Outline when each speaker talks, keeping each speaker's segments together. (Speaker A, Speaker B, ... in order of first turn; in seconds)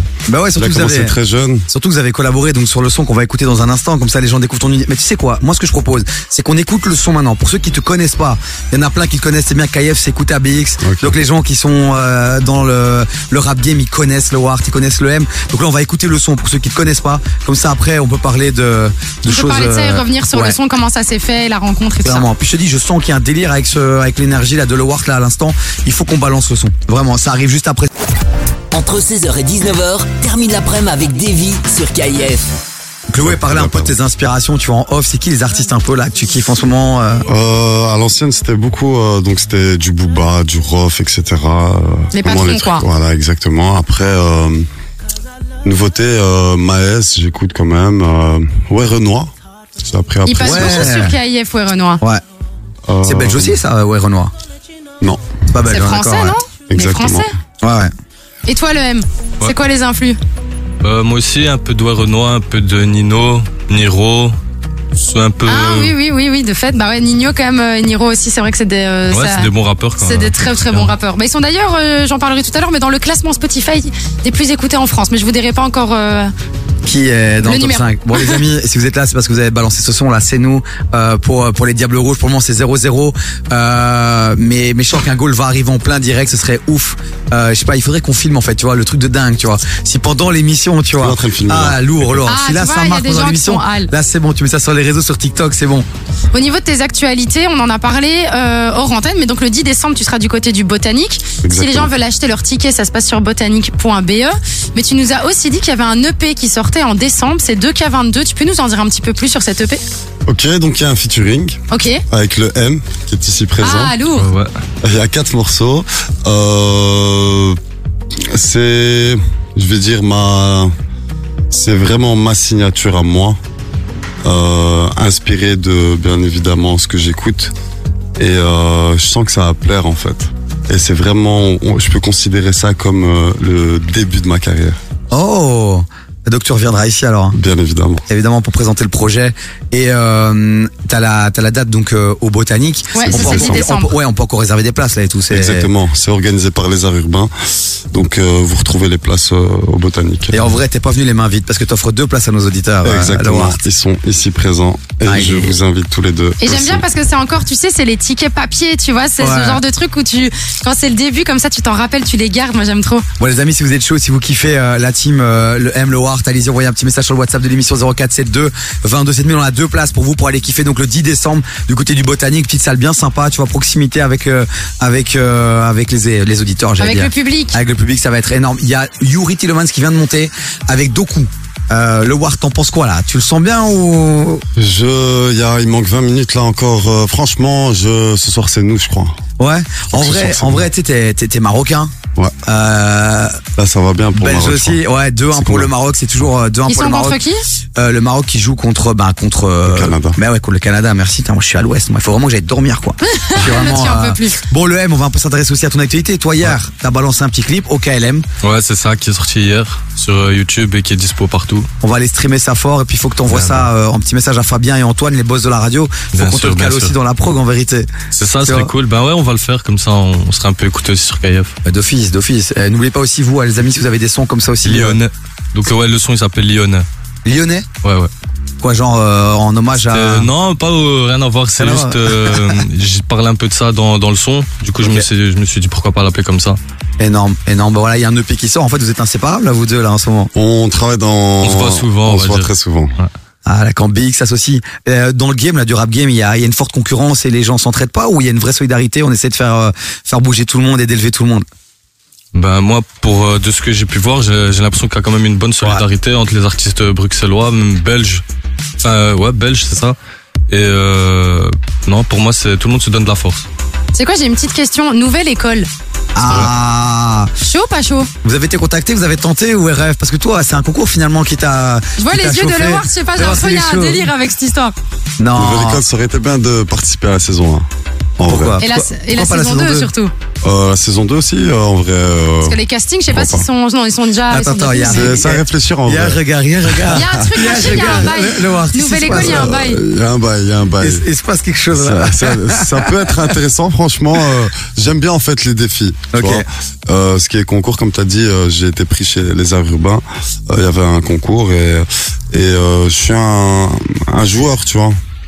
Speaker A: 0.3-1.1, 1.7-20.6, 22.0-27.9, 33.1-37.2, 50.4-51.2, 53.0-54.3, 55.5-56.4, 57.6-57.9, 76.8-95.8, 135.1-137.3, 138.1-145.7, 150.3-153.6, 155.1-155.6, 159.2-159.6, 163.2-184.4, 189.4-191.9, 192.4-193.4, 194.2-197.2, 197.8-208.2, 211.8-218.7, 221.6-225.0, 227.2-227.7, 228.6-230.3, 231.6-232.6, 234.8-235.1, 237.0-240.3, 243.4-251.4, 266.1-267.3, 268.2-274.1, 275.2-275.8, 278.2-279.9, 284.3-289.5, 290.8-293.2, 296.1-296.4
Speaker B: 0.6-1.7, 10.8-11.2, 33.2-34.0, 37.3-44.7, 45.6-51.1, 52.9-53.6, 56.7-57.3, 91.0-92.2, 101.4-101.9, 110.3-113.9, 114.8-117.6, 118.3-120.7, 121.5-123.4, 124.2-127.5, 128.2-134.8, 137.3-138.1, 143.0-143.6, 145.3-147.3, 147.9-150.5, 152.8-156.8, 184.6-189.2, 189.9-190.7, 193.6-194.8, 195.3-195.7, 199.7-200.2, 240.3-242.9, 275.3-277.7, 278.2-278.6, 280.4-282.6, 283.1-283.4, 284.9-288.1, 289.1-291.0, 291.7-305.0
Speaker C: 19.3-22.3, 42.1-42.8, 50.2-52.0, 55.6-57.3, 58.5-60.2, 65.5-76.3, 77.4-78.4, 92.2-93.9, 96.3-109.8, 111.7-112.0, 113.6-114.3, 142.9-143.9, 156.4-163.1, 176.8-177.6, 196.6-197.4, 203.1-204.4, 263.9-265.7, 267.4-268.1, 272.0-274.7, 278.6-280.1, 282.4-285.2, 286.9-289.8
Speaker D: 28.7-32.4
Speaker E: 60.8-64.3, 65.0-65.9, 69.1-70.9, 114.1-114.5, 208.4-211.7, 213.3-213.7, 216.1-216.9, 218.1-221.5, 224.6-226.8, 227.8-228.1, 229.8-236.6, 241.4-243.1, 252.3-258.2, 258.8-260.0, 260.5-263.5, 266.2-266.5